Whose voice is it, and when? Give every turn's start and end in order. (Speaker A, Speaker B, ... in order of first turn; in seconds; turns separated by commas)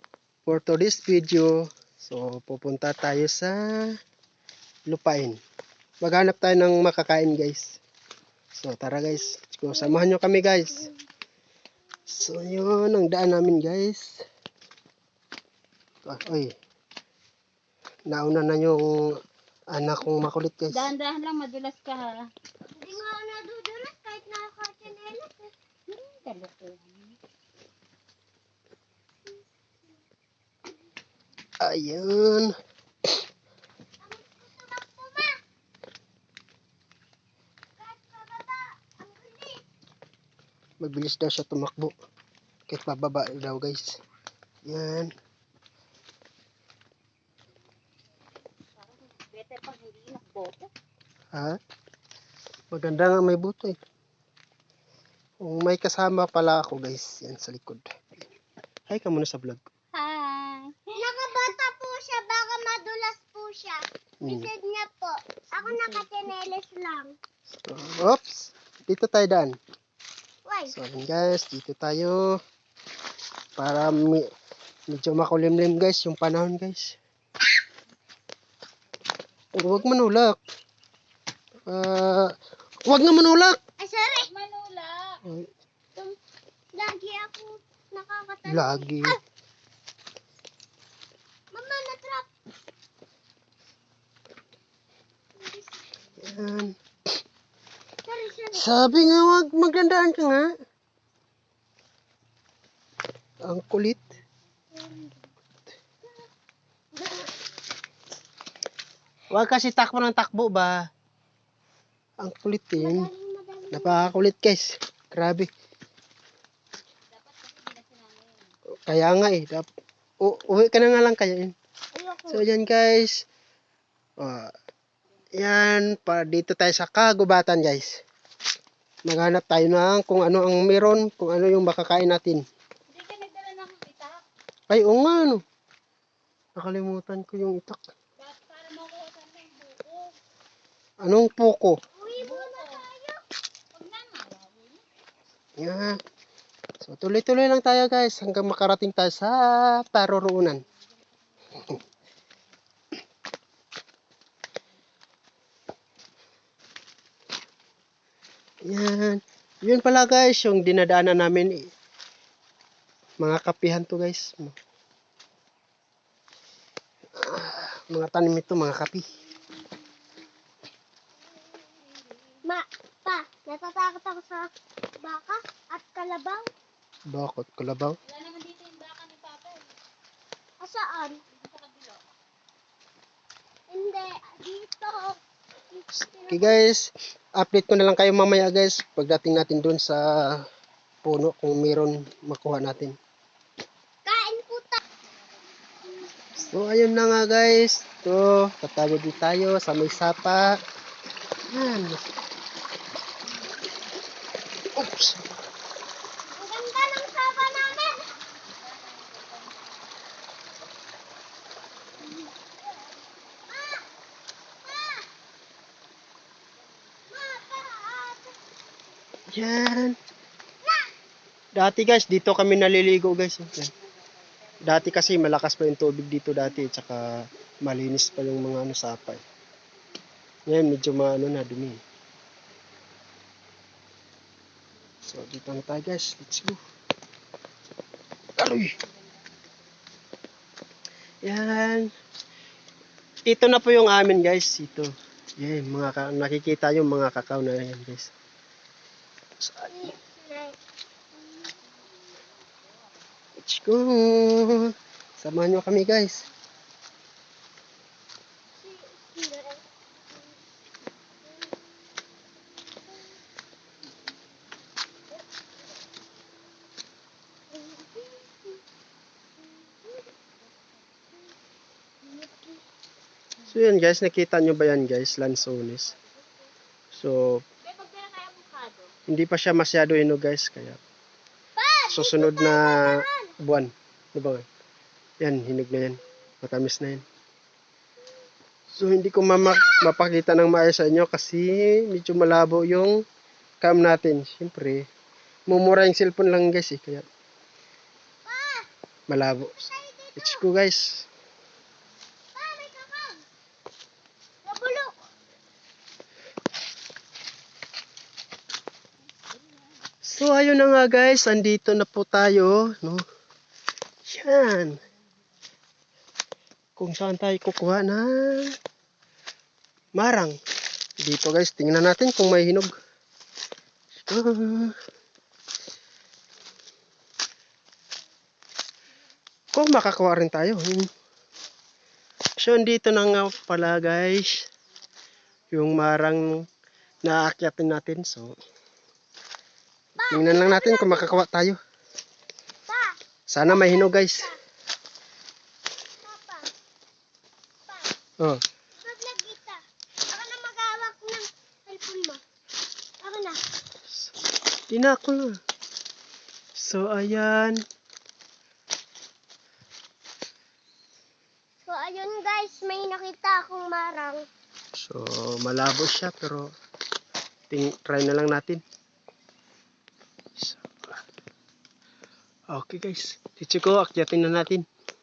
Speaker A: 0.5-3.9, Speaker A: 4.9-5.4, Speaker A: 6.0-7.8, Speaker A: 8.5-10.9, Speaker A: 12.1-14.2, Speaker A: 16.0-16.5, Speaker A: 18.1-19.1, Speaker A: 19.7-20.9, Speaker B: 20.7-22.3, Speaker C: 22.8-25.5, Speaker B: 25.9-27.2, Speaker A: 31.6-32.5, Speaker C: 34.0-35.4, Speaker C: 37.8-39.6, Speaker A: 40.8-41.9, Speaker A: 42.7-44.0, Speaker A: 44.6-45.1, Speaker B: 48.8-50.7, Speaker A: 51.3-51.6, Speaker A: 52.7-53.8, Speaker A: 55.4-57.9, Speaker A: 58.9-59.6, Speaker B: 59.9-61.1, Speaker C: 61.0-67.2, Speaker A: 64.2-64.5, Speaker A: 67.6-69.5, Speaker C: 70.5-70.7, Speaker A: 70.7-72.4, Speaker A: 73.6-74.3, Speaker A: 74.9-77.0, Speaker A: 79.5-80.4, Speaker A: 81.7-83.6, Speaker C: 83.8-84.3, Speaker B: 84.0-85.2, Speaker C: 86.8-89.2, Speaker A: 88.5-89.2, Speaker C: 91.5-92.3, Speaker A: 96.2-96.7, Speaker C: 98.0-98.7, Speaker A: 98.5-100.5, Speaker A: 103.4-104.2, Speaker C: 104.7-105.2, Speaker C: 107.0-107.3, Speaker A: 109.3-110.8, Speaker A: 112.2-113.1, Speaker C: 112.8-114.2, Speaker A: 113.7-115.5, Speaker B: 117.1-118.5, Speaker A: 118.9-119.7, Speaker A: 120.2-121.5, Speaker C: 121.9-122.4, Speaker A: 122.3-123.2, Speaker A: 124.2-124.5, Speaker A: 125.4-128.0, Speaker A: 129.1-132.4, Speaker B: 132.9-134.2, Speaker A: 134.7-135.4, Speaker A: 136.6-137.8, Speaker B: 138.2-140.2, Speaker A: 141.0-141.8, Speaker C: 141.9-143.2, Speaker B: 142.2-142.8, Speaker B: 143.7-144.8, Speaker A: 145.6-146.0, Speaker A: 146.8-150.6, Speaker A: 158.6-161.7, Speaker A: 163.2-164.6, Speaker A: 167.2-169.1, Speaker C: 172.5-174.5, Speaker C: 175.0-176.5, Speaker A: 177.1-178.0, Speaker B: 178.0-179.7, Speaker C: 180.6-181.2, Speaker B: 181.3-182.0, Speaker C: 183.7-185.2, Speaker C: 185.7-186.6, Speaker A: 186.3-190.4, Speaker A: 191.0-192.9, Speaker C: 194.0-194.8, Speaker A: 196.3-200.6, Speaker A: 201.5-202.1, Speaker A: 204.7-205.2, Speaker C: 206.3-208.0, Speaker B: 208.4-209.6, Speaker C: 213.5-213.8, Speaker C: 214.6-215.1, Speaker C: 217.1-218.3, Speaker A: 219.3-220.0, Speaker C: 220.6-220.9, Speaker A: 221.5-223.7, Speaker A: 224.6-229.2, Speaker A: 230.5-231.8, Speaker A: 235.0-236.6, Speaker A: 238.4-238.8, Speaker B: 239.0-239.4, Speaker A: 241.2-241.9, Speaker A: 243.3-248.1, Speaker A: 249.4-249.9, Speaker C: 249.7-250.6, Speaker A: 253.4-256.2, Speaker C: 258.6-259.6, Speaker C: 267.5-268.6, Speaker C: 272.1-272.6, Speaker A: 273.5-275.9, Speaker A: 276.9-277.4, Speaker B: 277.6-278.9, Speaker A: 279.1-280.8, Speaker C: 281.6-283.3, Speaker A: 281.9-284.4, Speaker A: 285.2-287.0, Speaker A: 288.7-293.0, Speaker A: 293.6-294.9, Speaker A: 295.5-297.1, Speaker C: 298.2-298.7, Speaker A: 299.1-299.6, Speaker C: 299.5-300.4, Speaker A: 300.2-301.1, Speaker C: 302.3-303.2, Speaker C: 304.4-304.9, Speaker A: 310.0-313.0, Speaker A: 314.1-314.8, Speaker A: 316.8-318.6, Speaker A: 319.9-320.4, Speaker A: 321.0-322.7, Speaker A: 324.1-324.7, Speaker A: 329.5-330.9, Speaker A: 332.4-334.4, Speaker A: 335.5-336.5, Speaker A: 337.0-338.4, Speaker C: 340.0-341.1, Speaker A: 340.1-341.6, Speaker C: 342.7-344.4, Speaker A: 343.3-344.3, Speaker C: 346.0-346.5, Speaker C: 347.7-347.9, Speaker C: 348.8-352.2, Speaker C: 353.0-353.4, Speaker A: 354.7-355.4, Speaker A: 356.6-357.6, Speaker C: 361.6-364.2, Speaker A: 364.7-366.5, Speaker A: 367.5-368.6, Speaker A: 370.4-370.6, Speaker A: 372.5-374.6